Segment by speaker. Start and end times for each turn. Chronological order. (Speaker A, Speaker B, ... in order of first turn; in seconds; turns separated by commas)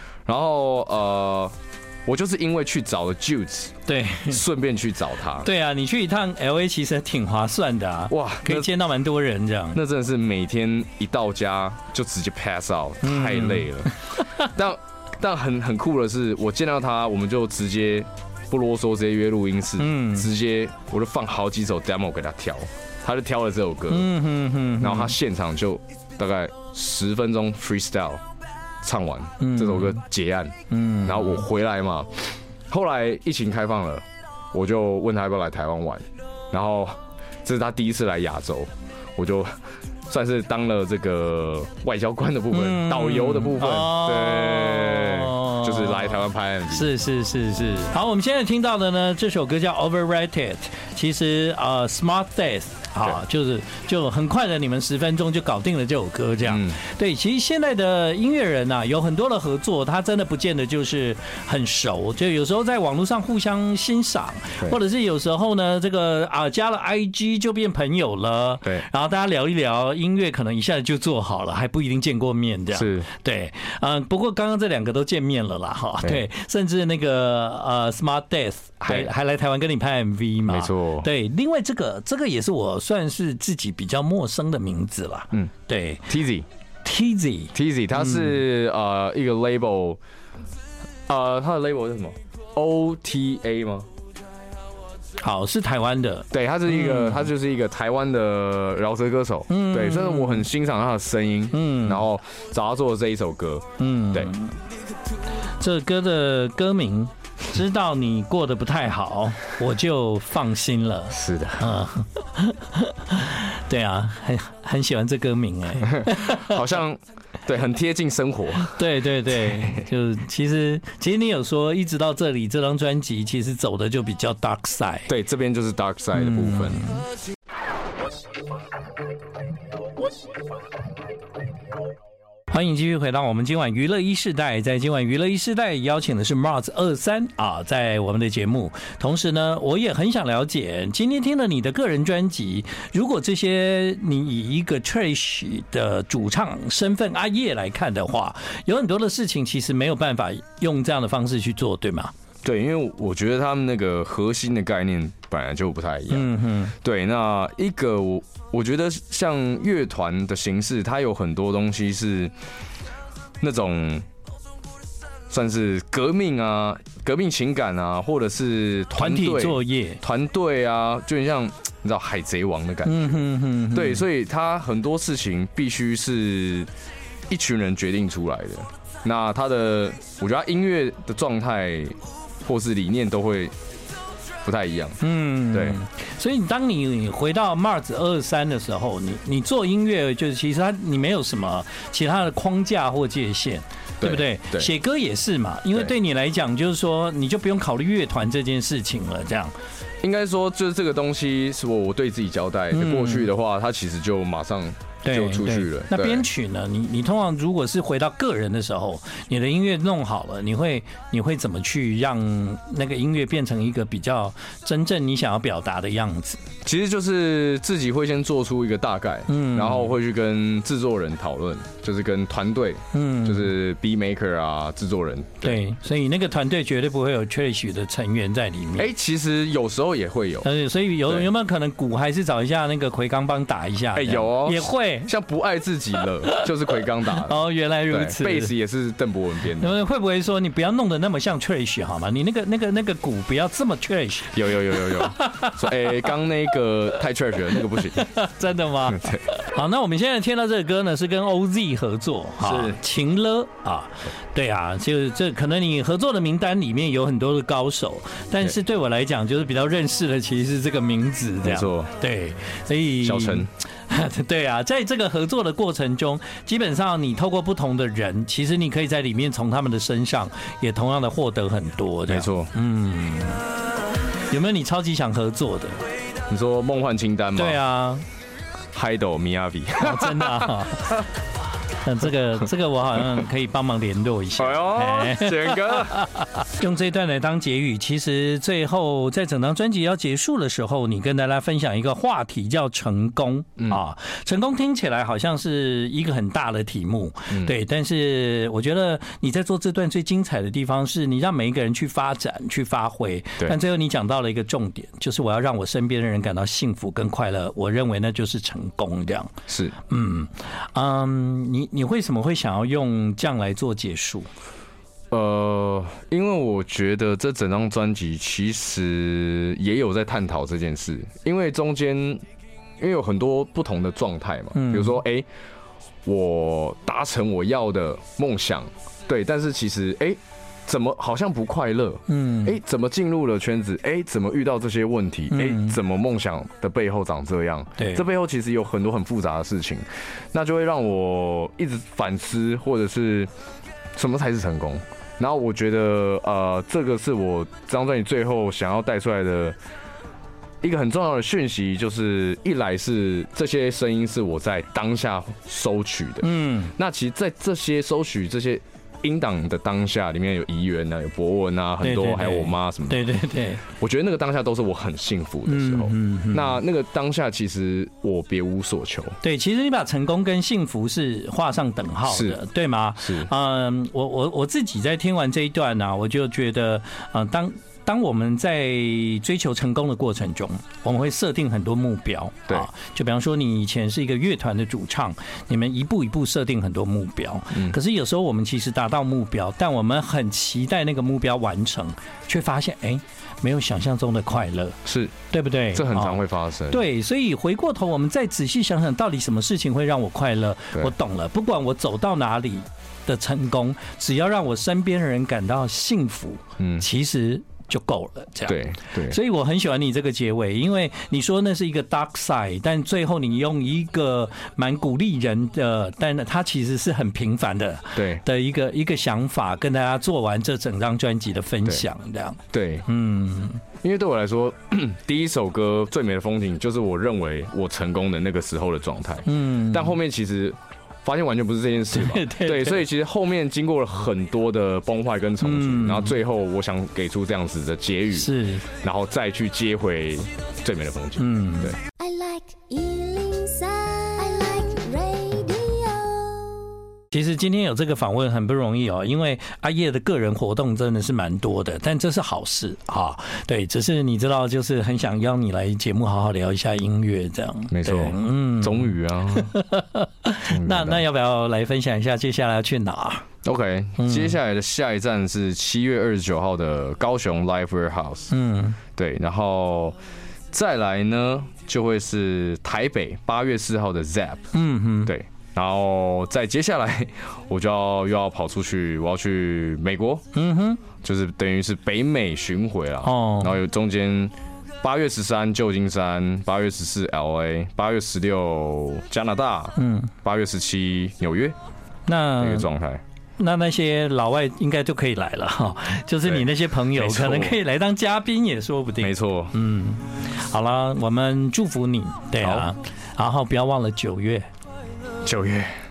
Speaker A: 0.3-1.6, Speaker A: 2.1-5.5, Speaker B: 3.9-4.4, Speaker B: 5.4-9.8, Speaker A: 8.1-8.7, Speaker A: 9.7-24.1, Speaker B: 13.0-14.5, Speaker B: 19.8-20.3, Speaker B: 23.9-25.1, Speaker A: 24.8-28.2, Speaker A: 28.8-39.5, Speaker B: 29.4-30.0, Speaker B: 30.7-31.5, Speaker A: 40.1-46.9, Speaker B: 42.5-86.1, Speaker A: 56.5-56.8, Speaker A: 72.7-73.1, Speaker A: 78.8-79.1, Speaker A: 80.5-81.1, Speaker A: 86.1-86.5, Speaker B: 86.8-88.3, Speaker A: 87.5-90.0, Speaker A: 91.1-93.9, Speaker B: 95.2-97.3, Speaker A: 96.3-104.3, Speaker B: 99.5-100.5, Speaker B: 101.5-102.0, Speaker B: 103.8-104.6, Speaker B: 105.6-116.6, Speaker A: 111.1-111.8, Speaker A: 116.0-118.9, Speaker B: 118.7-125.1, Speaker A: 119.4-119.8, Speaker A: 125.1-126.8, Speaker B: 126.2-127.0, Speaker B: 132.5-152.1, Speaker A: 152.4-162.3, Speaker B: 156.1-156.7, Speaker A: 163.4-164.1, Speaker A: 165.3-176.7, Speaker B: 168.9-170.0, Speaker B: 172.8-174.1, Speaker A: 177.3-183.5, Speaker A: 184.4-185.0, Speaker B: 185.0-199.5, Speaker A: 185.5-185.8, Speaker A: 194.0-194.7, Speaker A: 200.0-206.3, Speaker B: 202.7-203.3, Speaker B: 205.1-216.4, Speaker A: 216.6-225.6, Speaker B: 219.3-219.9, Speaker B: 222.9-223.5, Speaker B: 225.4-228.9, Speaker A: 228.8-230.5, Speaker B: 230.4-235.1, Speaker A: 233.9-237.4, Speaker B: 237.1-238.5, Speaker A: 237.9-239.8, Speaker B: 239.6-246.1, Speaker A: 244.3-248.1, Speaker B: 247.6-273.4, Speaker A: 248.9-249.2, Speaker A: 252.4-252.8, Speaker A: 261.4-261.9, Speaker A: 263.0-263.5, Speaker A: 272.1-272.5, Speaker B: 274.3-275.8, Speaker A: 276.3-277.6, Speaker B: 277.4-278.0, Speaker A: 278.7-280.7, Speaker B: 279.8-281.0, Speaker B: 281.8-309.3, Speaker A: 284.4-286.1, Speaker A: 309.5-309.8, Speaker B: 309.9-314.3, Speaker A: 315.1-322.2, Speaker A: 322.8-325.3, Speaker B: 324.5-325.0, Speaker A: 326.1-343.3, Speaker B: 332.1-332.6, Speaker B: 335.3-335.8, Speaker B: 337.8-338.0, Speaker A: 344.0-349.6, Speaker A: 350.6-363.1, Speaker B: 356.2-356.7, Speaker B: 361.8-363.6, Speaker A: 363.7-369.2, Speaker B: 365.5-366.6, Speaker B: 369.2-396.2, Speaker A: 372.1-372.4, Speaker A: 373.0-373.3, Speaker A: 387.5-387.8, Speaker A: 394.9-395.1, Speaker A: 395.7-396.8, Speaker B: 396.7-423.6, Speaker A: 406.6-406.9, Speaker A: 408.5-409.2, Speaker A: 417.9-418.2, Speaker A: 422.5-422.9, Speaker A: 423.8-441.8, Speaker B: 429.3-430.0, Speaker B: 431.9-432.8, Speaker B: 435.4-436.1, Speaker B: 438.1-438.7, Speaker B: 441.2-441.8, Speaker C: 442.0-446.7, Speaker B: 447.1-463.3, Speaker A: 457.7-459.5, Speaker A: 460.5-461.0, Speaker A: 463.4-468.3, Speaker B: 464.0-464.4, Speaker B: 468.3-468.8, Speaker A: 469.0-470.0, Speaker A: 470.5-474.4, Speaker B: 474.5-475.1, Speaker A: 475.1-480.2, Speaker B: 480.3-480.8, Speaker A: 481.0-491.6, Speaker B: 483.0-483.5, Speaker B: 489.8-490.1, Speaker B: 492.1-492.7, Speaker A: 492.4-493.0, Speaker B: 493.4-504.5, Speaker A: 496.2-497.6, Speaker A: 499.0-499.6, Speaker A: 502.4-502.7, Speaker A: 505.2-505.7